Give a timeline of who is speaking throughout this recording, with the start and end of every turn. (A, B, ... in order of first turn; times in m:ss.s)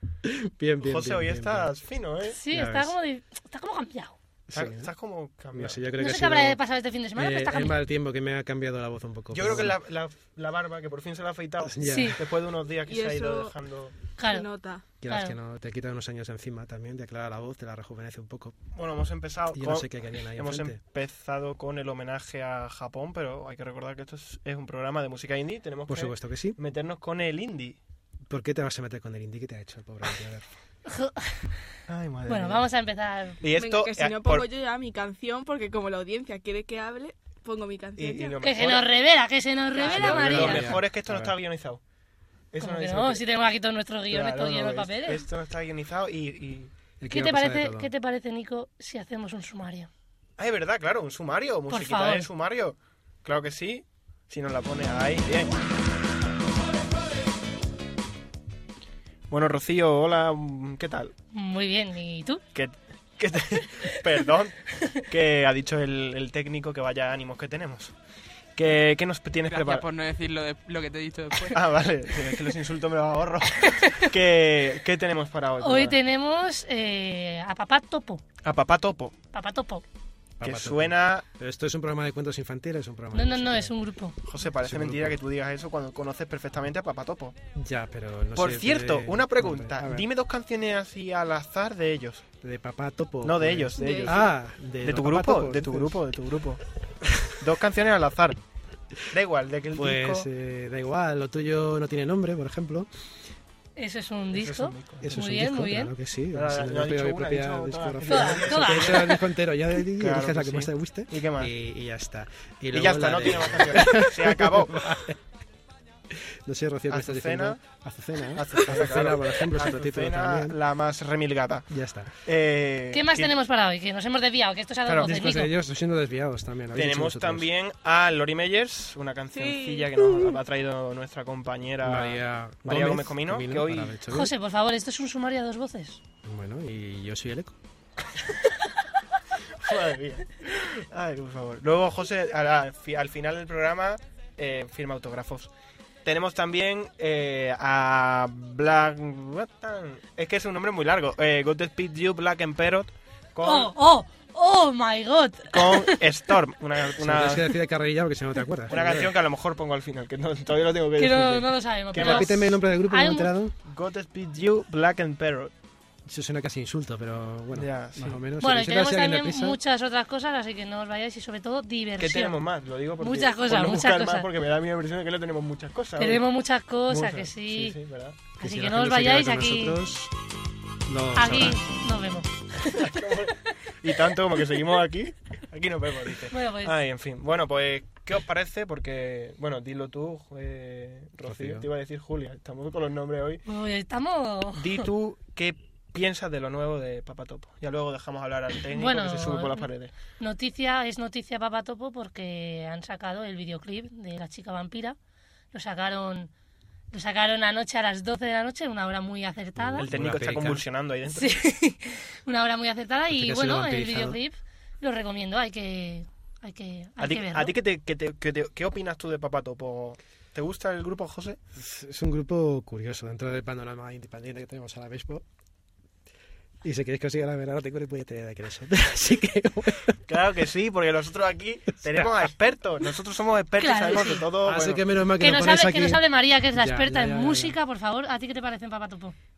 0:00.2-0:01.7 A
0:00.8-0:02.4 B
0:02.3-0:04.2 C
0:02.5-0:03.0 A
0:04.5-0:04.9 A
0:04.5-0:05.8 B
0:05.5-0:06.6 A
0:06.0-0:07.8 C
0:07.2-0:09.7 A
0:09.3-0:14.0 B
0:11.6-0:12.2 A
0:11.8-0:12.2 C
0:12.9-0:13.5 D
0:14.2-0:14.4 C
0:14.2-0:14.8 D
0:15.0-0:18.6 A
0:15.0-0:15.4 C
0:18.7-0:27.8 B
0:19.5-0:20.8 A
0:25.9-0:26.6 A
0:28.3-0:30.4 A
0:30.9-0:31.4 C
0:31.9-0:32.7 B
0:32.3-0:33.4 C
0:33.4-0:34.5 B
0:33.6-0:38.4 D
0:38.0-0:38.9 B
0:38.4-0:40.8 C
0:39.8-0:40.3 D
0:39.8-0:41.8 B
0:39.9-0:41.3 A
0:42.5-0:43.2 B
0:42.6-0:45.2 C
0:44.1-0:46.7 B
0:47.0-0:47.9 A
0:47.1-0:49.9 C
0:50.4-0:55.6 B
0:51.7-0:52.3 C
0:59.3-1:01.1 B
1:01.3-1:02.4 C
1:02.5-1:07.9 B
1:08.6-1:09.9 B
1:09.5-1:11.6 E
1:11.5-1:16.0 B
1:15.6-1:18.2 C
1:18.4-1:19.2 B
1:19.3-1:19.8 C
1:20.4-1:23.7 A
1:20.4-1:21.2 B
1:23.1-1:24.2 C
1:24.2-1:27.4 B
1:24.6-1:25.2 A
1:27.5-1:30.0 A
1:28.4-1:32.2 B
1:32.4-1:36.0 A
1:33.2-1:34.3 B
1:33.7-1:34.2 D
1:34.8-1:36.6 B
1:37.4-1:38.4 B
1:39.1-1:40.3 B
1:39.7-1:42.9 A
1:43.8-1:45.9 C
1:44.3-1:45.3 B
1:45.0-1:55.2 A
1:46.3-1:49.1 B
1:48.0-1:49.3 C
1:50.0-1:51.5 B
1:52.7-1:54.9 B
1:56.4-2:00.6 A
1:56.9-1:57.6 B
1:58.4-2:01.7 B
2:01.7-2:02.1 A
2:02.2-2:03.3 B
2:02.9-2:05.5 C
2:04.8-2:05.1 B
2:05.0-2:07.5 A
2:06.7-2:14.0 B
2:09.4-2:10.4 D
2:11.8-2:14.3 A
2:14.1-2:16.0 C
2:16.2-2:17.6 A
2:19.6-2:25.5 B
2:26.0-2:33.7 B
2:33.4-2:36.0 C
2:35.5-2:37.5 B
2:37.0-2:39.1 A
2:38.7-2:42.3 B
2:41.0-2:43.3 C
2:41.9-2:43.5 A
2:43.6-2:45.5 B
2:46.0-2:49.6 A
2:47.5-2:48.2 B
2:48.4-2:52.4 C
2:52.0-2:56.3 B
2:53.0-2:54.3 C
2:56.0-2:57.8 C
2:56.9-2:58.2 B
2:58.4-2:59.8 C
2:58.4-3:00.1 A
3:00.9-3:01.6 A
3:01.1-3:02.3 C
3:02.6-3:13.4 B
3:06.3-3:06.8 C
3:11.2-3:11.7 A
3:13.4-3:14.8 C
3:14.6-3:19.9 B
3:18.7-3:25.0 C
3:25.5-3:26.3 C
3:26.9-3:29.9 C
3:29.6-3:30.6 A
3:29.8-3:31.4 B
3:31.1-3:37.5 C
3:33.1-3:34.2 A
3:37.0-3:41.4 B
3:41.6-3:45.2 A
3:46.6-3:50.0 A
3:50.1-3:54.8 B
3:53.6-3:54.3 C
3:54.4-3:57.6 A
3:55.2-3:59.1 C